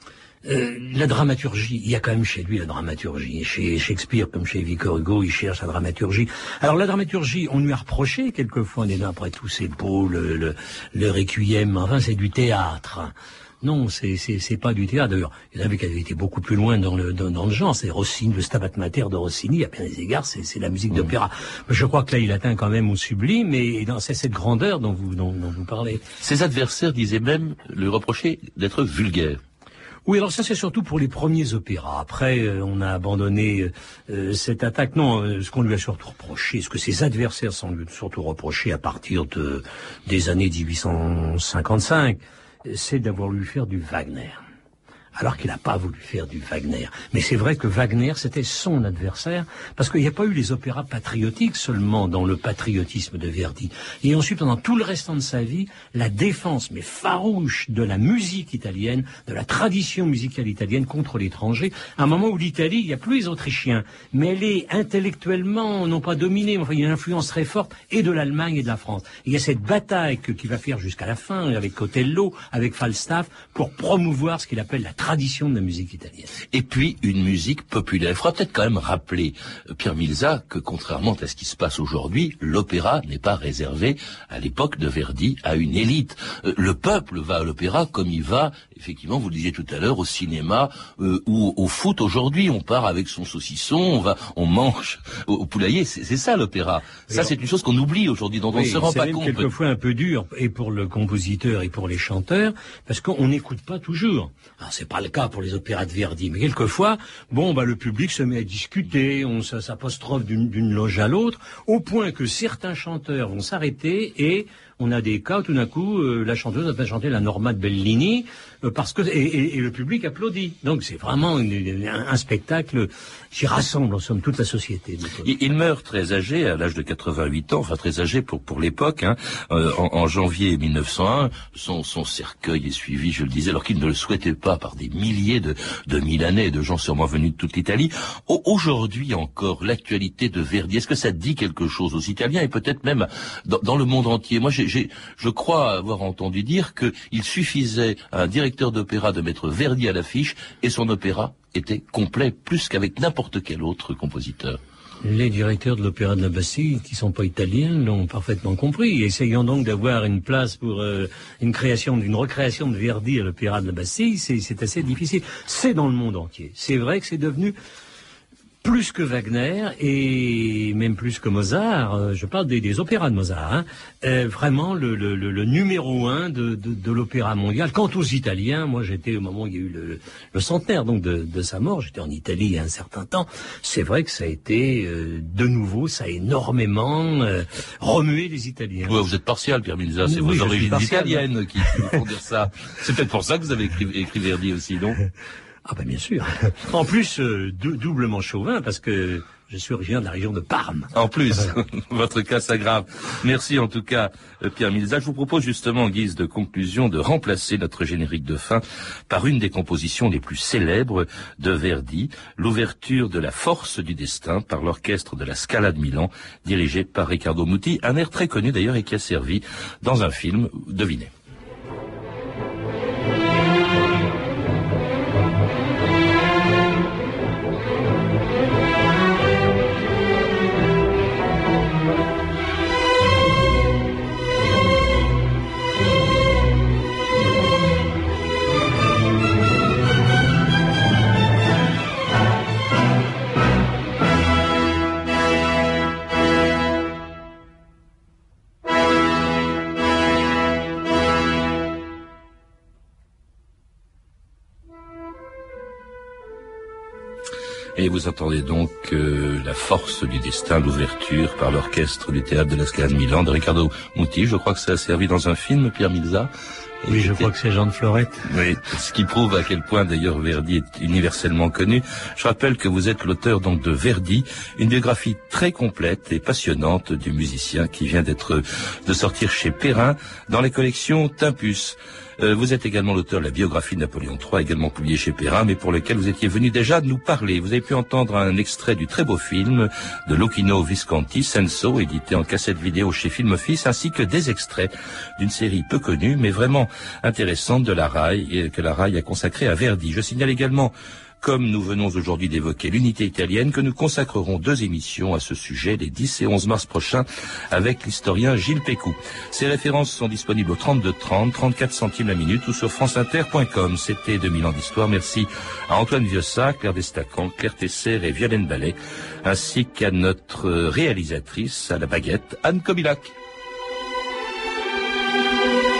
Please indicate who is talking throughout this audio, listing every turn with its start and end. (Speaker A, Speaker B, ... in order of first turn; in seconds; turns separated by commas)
Speaker A: 0.4-26.0, Speaker B: 26.2-29.4, Speaker A: 30.1-44.4, Speaker A: 45.2-76.3, Speaker B: 76.5-99.5, Speaker A: 98.5-125.3, Speaker B: 125.2-154.6, Speaker A: 155.0-167.6, Speaker A: 168.6-189.0, Speaker B: 188.8-195.0, Speaker A: 190.0-192.0, Speaker A: 195.7-200.9, Speaker B: 200.9-221.1, Speaker B: 257.8-266.3, Speaker B: 266.8-267.3, Speaker A: 266.9-268.3, Speaker B: 268.3-323.1